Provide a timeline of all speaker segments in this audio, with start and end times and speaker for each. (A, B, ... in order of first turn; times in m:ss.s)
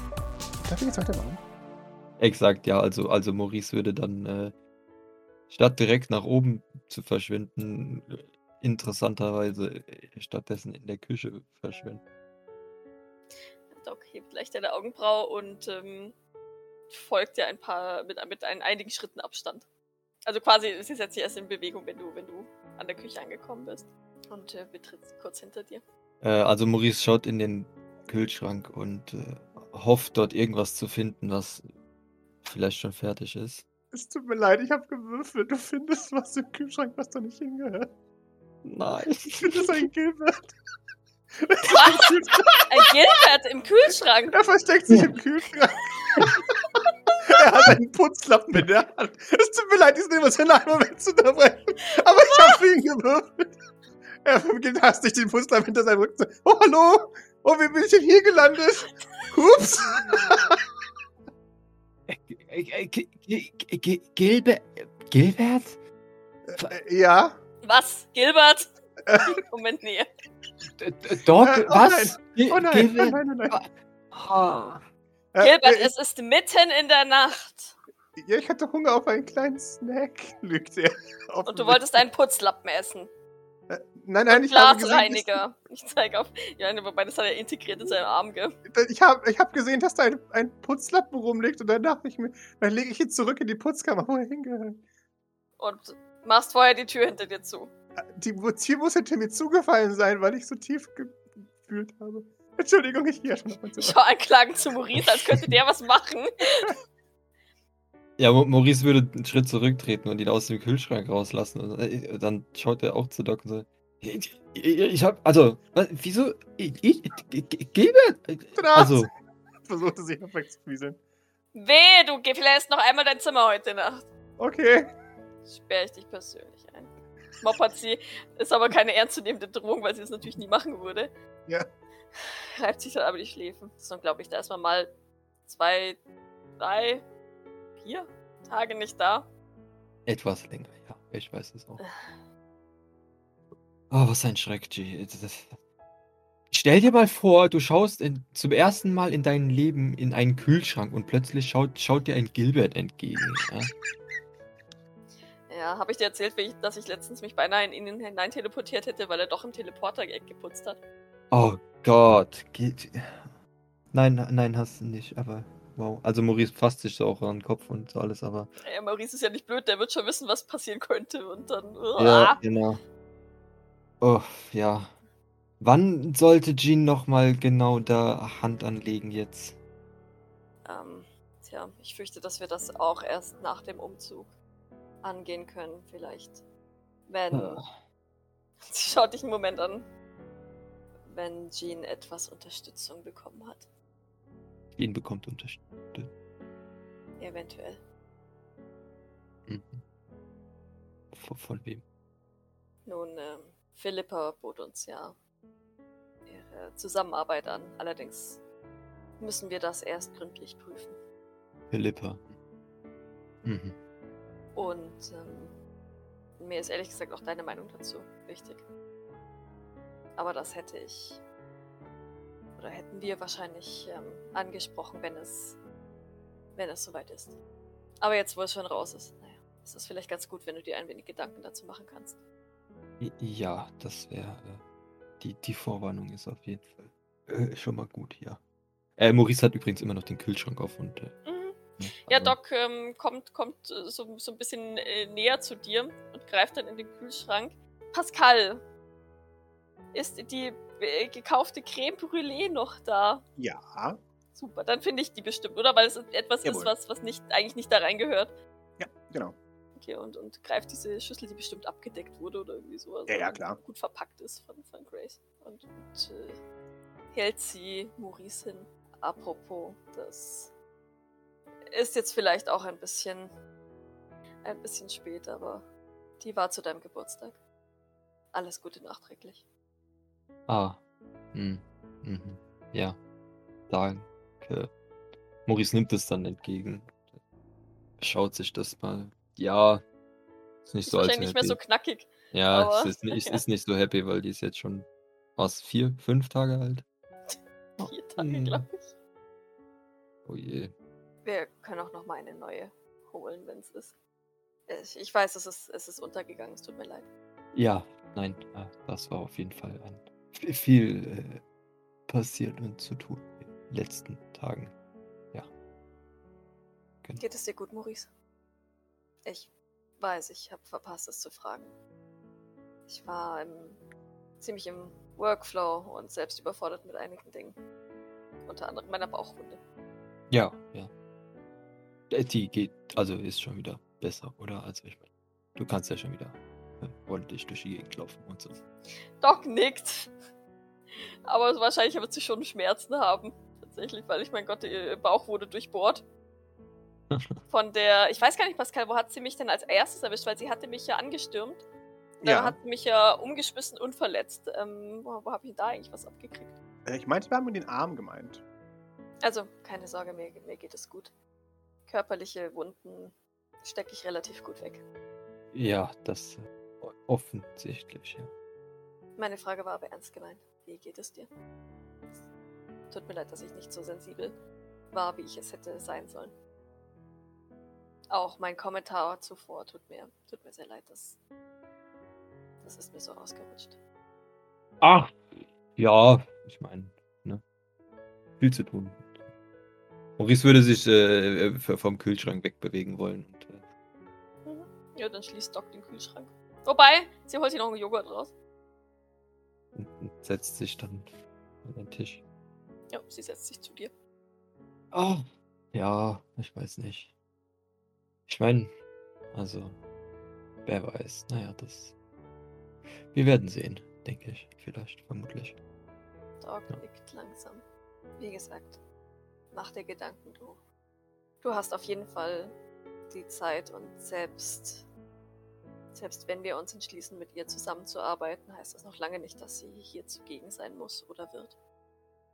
0:00.6-0:01.4 A
0:02.2-0:04.5 B
0:05.5-0:12.0 B
0:13.7-0:16.2 C
0:16.9-0:19.7 C
0:20.3-0:25.8 C
0:26.2-0:31.7 B
0:32.4-0:33.6 B
0:33.9-0:37.9 A
0:38.6-0:39.9 B
0:39.4-0:40.6 A
0:41.4-0:42.9 A
0:41.7-0:44.4 C
0:44.3-0:46.4 A
0:47.3-0:53.5 A
0:52.0-0:52.6 C
0:54.2-1:00.6 A
1:02.1-1:05.8 B
1:06.5-1:07.4 A
1:07.6-1:08.7 C
1:09.1-1:09.4 A
1:09.3-1:10.1 C
1:10.8-1:14.8 B
1:11.4-1:13.6 A
1:15.3-1:15.9 A
1:15.4-1:17.8 C
1:18.2-1:22.0 A
1:21.4-1:23.1 C
1:23.7-1:25.4 A
1:24.3-1:28.6 C
1:28.7-1:34.8 A
1:35.6-1:37.7 C
1:38.2-1:44.0 A
1:43.8-1:46.8 C
1:48.2-1:59.1 B
1:58.6-1:59.1 A
1:59.7-2:01.0 A
2:01.5-2:04.1 C
2:04.4-2:04.9 A
2:05.4-2:11.1 C
2:12.2-2:14.9 C
2:15.4-2:16.0 C
2:16.6-2:17.1 C
2:17.8-2:19.3 C
2:20.1-2:21.8 B
2:21.8-2:22.2 C
2:23.9-2:25.6 B
2:26.5-2:33.8 B
2:35.5-2:40.8 C
2:41.3-2:43.4 B
2:43.9-2:48.5 B
2:48.6-2:52.4 C
2:52.0-2:52.8 B
2:54.0-2:55.0 B
2:55.6-2:59.6 B
3:00.6-3:04.3 C
3:05.0-3:06.4 C
3:07.1-3:07.6 C
3:07.3-3:07.7 B
3:08.6-3:09.9 C
3:11.1-3:13.7 C
3:14.8-3:16.1 B
3:17.2-3:17.8 C
3:19.5-3:19.8 B
3:21.1-3:21.8 B
3:22.9-3:25.2 C
3:26.3-3:28.4 C
3:29.2-3:31.0 C
3:31.7-3:32.4 B
3:33.4-3:33.8 B
3:34.6-3:35.6 C
3:36.4-3:38.7 C
3:40.2-3:41.2 C
3:42.6-3:45.6 C
3:46.6-3:47.4 C
3:48.0-3:52.2 C
3:53.0-3:54.6 B
3:55.2-3:58.4 B
3:59.0-4:01.2 B
4:01.2-4:08.6 C
4:01.8-4:02.4 B
4:09.9-4:13.2 C
4:13.4-4:14.0 A
4:14.3-4:18.4 C
4:16.4-4:16.7 A
4:18.8-4:19.4 A
4:19.8-4:26.4 C
4:23.1-4:23.6 A
4:27.1-4:30.5 C
4:31.7-4:33.3 C
4:34.4-4:35.7 C
4:36.2-4:37.4 C
4:38.3-4:39.5 C
4:40.5-4:40.8 B
4:41.3-4:43.0 B
4:43.7-4:44.7 B
4:45.5-4:47.2 B
4:48.0-4:49.8 B
4:50.7-4:51.6 B
4:50.9-4:53.4 C
4:52.3-4:56.8 B
4:57.3-4:59.0 C
4:57.8-4:58.6 B
5:00.2-5:00.7 B
5:01.2-5:04.0 C
5:04.7-5:07.1 C
5:07.5-5:11.4 B
5:12.1-5:14.7 B
5:17.2-5:18.1 C
5:19.2-5:21.8 C
5:22.9-5:23.8 C
5:24.4-5:27.6 C
5:28.4-5:29.6 C
5:30.3-5:30.9 B
5:32.1-5:38.6 B
5:39.2-5:40.1 C
5:41.3-5:46.0 C
5:47.1-5:47.4 B
5:47.5-5:51.7 C
5:52.2-5:52.6 A
5:52.2-5:56.6 C
5:56.9-5:58.4 A
5:59.2-6:01.1 C
6:01.9-6:04.8 C
6:05.5-6:08.3 B
6:09.2-6:11.3 C
6:12.9-6:14.4 C
6:14.9-6:16.4 C
6:18.1-6:21.2 C
6:22.6-6:23.8 C
6:24.8-6:27.4 B
6:28.4-6:29.3 B
6:30.2-6:33.6 B
6:34.4-6:38.4 C
6:39.8-6:41.1 B
6:41.6-6:42.2 B
6:42.9-6:43.9 C
6:44.9-6:47.1 B
6:48.3-6:48.7 B
6:49.3-6:49.8 B
6:50.6-6:51.9 B
6:53.0-6:55.6 B
6:56.4-6:57.6 C
6:58.2-6:58.8 C
6:59.5-7:00.6 C
7:01.4-7:02.6 C
7:03.1-7:04.9 C
7:05.9-7:11.6 C